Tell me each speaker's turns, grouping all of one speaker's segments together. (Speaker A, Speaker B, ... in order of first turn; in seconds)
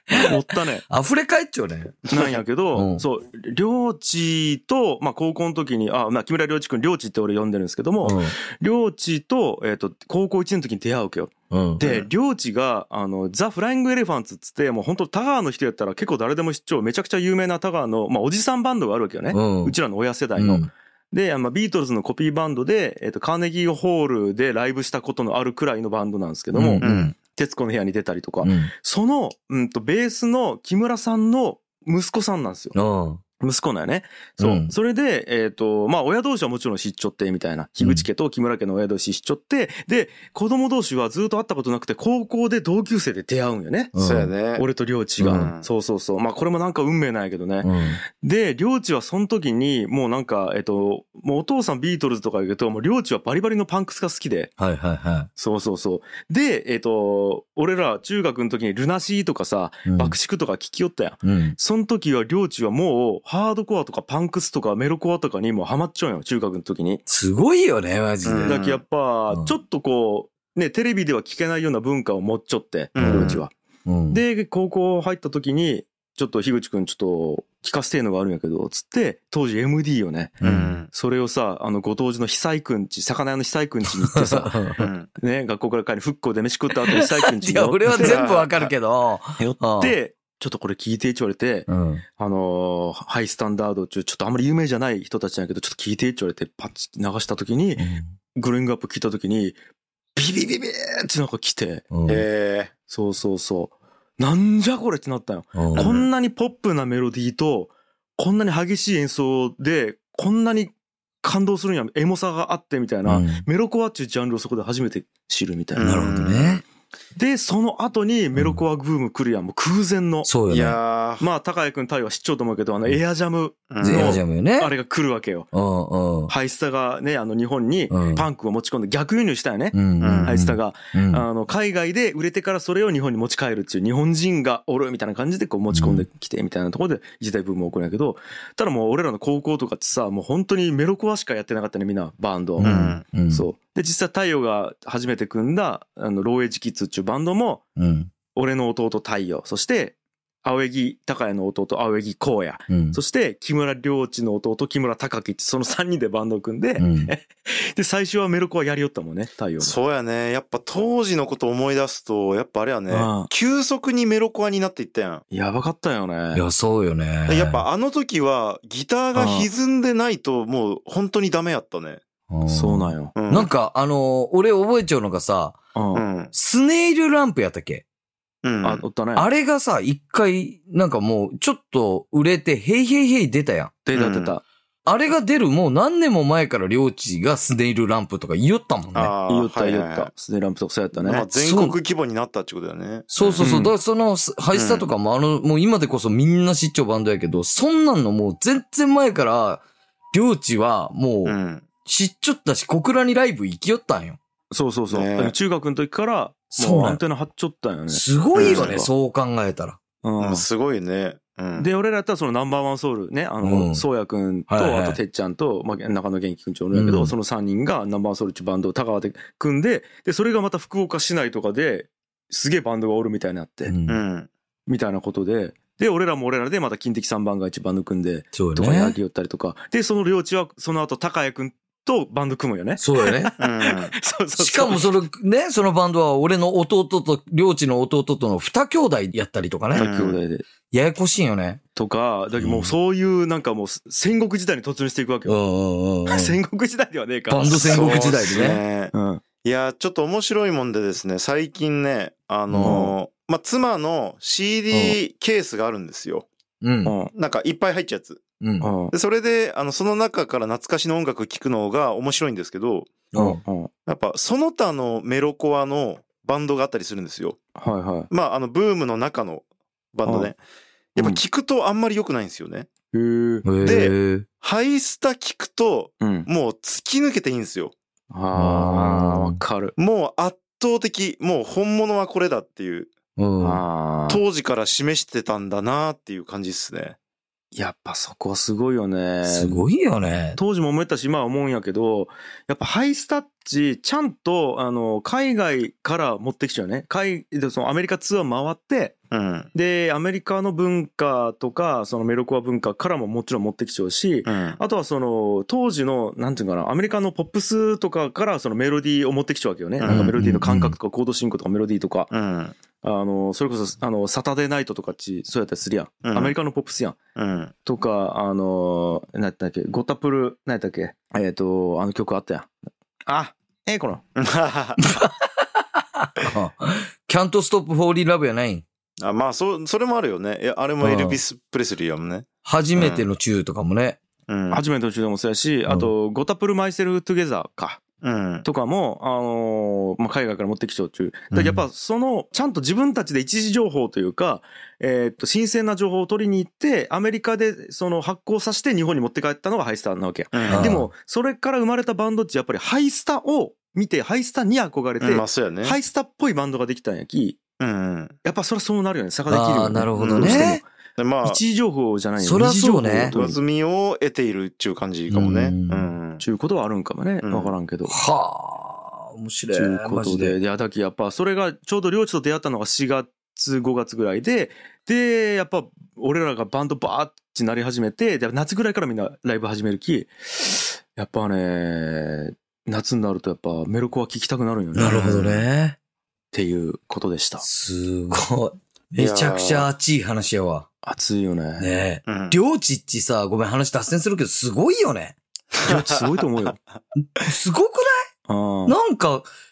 Speaker A: 0.1-2.1, 2.7-3.0, 8.0-8.3, 11.5-11.8, 19.3-19.8, 20.4-20.7, 26.5-27.0, 28.4-28.7, 32.8-33.2, 34.4-34.7, 37.8-38.1, 44.0-44.3, 45.2-45.5, 47.6-48.0, 54.6-55.3, 59.9-60.2, 61.2-61.6, 67.1-68.6, 73.0-74.2, 80.4-80.8, 84.0-84.9, 86.9-90.0, 91.7-92.0, 97.8-98.1, 101.9-102.2, 105.5-105.9, 113.1-113.5, 115.8-116.6, 118.4-118.6, 120.2-120.8, 123.8-124.7, 125.5-126.3, 127.9-128.3, 129.7-131.2, 135.7-136.1, 142.6-143.4, 147.8-148.1, 152.7-153.0, 156.8-157.1, 166.3-167.7, 172.3-175.6, 176.3-177.8, 179.2-183.8, 184.9-189.1, 191.4-191.8, 193.1-204.2, 206.5-207.0, 207.9-209.8, 213.4-213.8, 214.5-215.0, 216.7-217.1, 223.7-224.0, 228.3-229.0, 232.8-233.3, 234.4-239.9, 240.7-241.6, 242.4-242.8, 245.3-246.4, 247.3-248.6, 252.5-252.8, 256.6-256.9, 258.4-258.7, 263.1-263.4, 273.4-274.3, 278.4-279.4, 283.2-283.6, 289.3-290.4, 309.9-310.8, 324.8-328.6, 330.8-331.2, 332.4-334.0, 350.5-350.9, 359.3-360.6, 362.2-363.1, 365.1-365.9, 367.9-370.4, 384.8-385.8, 387.4-390.7, 391.6-395.2, 397.2-398.1, 398.7-399.3
Speaker B: 0.1-0.8, 2.1-32.8, 33.4-43.9, 44.5-54.5, 55.4-67.0, 68.5-73.5, 74.1-84.6, 85.2-88.2, 89.4-99.6, 100.2-101.9, 102.9-115.9, 117.2-120.3, 121.2-125.5, 126.3-147.6, 148.3-159.8, 162.9-163.3, 165.3-166.4, 169.1-169.5, 172.5-173.1, 175.8-176.1, 178.6-179.3, 183.9-184.4, 189.3-191.3, 193.4-193.7, 204.5-208.9, 210.0-210.4, 211.6-223.8, 224.7-234.9, 239.7-240.4, 241.8-245.4, 246.1-249.2, 252.6-252.9, 254.7-255.0, 256.9-257.1, 258.6-258.9, 263.1-263.7, 267.6-268.1, 270.1-270.3, 272.9-273.5, 276.0-276.3, 278.1-279.8, 283.4-284.2, 287.5-289.6, 290.4-299.0, 299.5-312.1, 312.8-317.0, 317.6-322.5, 323.1-324.0, 334.5-337.8, 338.4-357.4, 358.2-360.6, 361.2-363.4, 366.2-368.0, 369.5-385.0, 386.3-387.5, 390.8-391.8, 395.6-396.6, 398.3-398.8
Speaker C: 11.8-12.1, 26.8-27.1, 44.0-44.7, 45.3-45.7, 68.2-68.8, 73.0-73.4, 80.4-80.9, 84.8-85.1, 88.0-88.7, 102.1-102.7, 105.8-106.1, 115.8-116.6, 120.5-121.3, 123.7-124.2, 130.0-130.4, 142.6-143.0, 159.6-165.2, 167.3-172.0, 173.2-173.5, 175.9-176.3, 178.4-178.8, 183.9-184.3, 188.9-190.1, 191.0-193.5, 194.5-194.9, 201.2-201.7, 204.9-205.3, 208.3-208.8, 210.2-211.7, 223.9-224.3, 233.4-233.9, 239.8-240.2, 247.6-256.3, 257.1-258.2, 258.9-263.0, 263.9-267.4, 268.1-270.4, 270.9-272.7, 273.6-277.7, 279.8-282.9, 284.1-287.0, 299.1-299.5, 304.2-304.6, 309.8-310.1, 312.1-312.6, 316.1-316.4, 317.2-317.5, 324.2-324.8, 329.0-333.1, 334.3-334.6, 338.0-338.5, 350.3-350.8, 355.0-355.8, 357.6-358.2, 360.0-361.4, 363.1-366.2, 367.2-367.6, 384.8-385.5, 389.0-389.7, 392.1-392.4, 395.6-395.9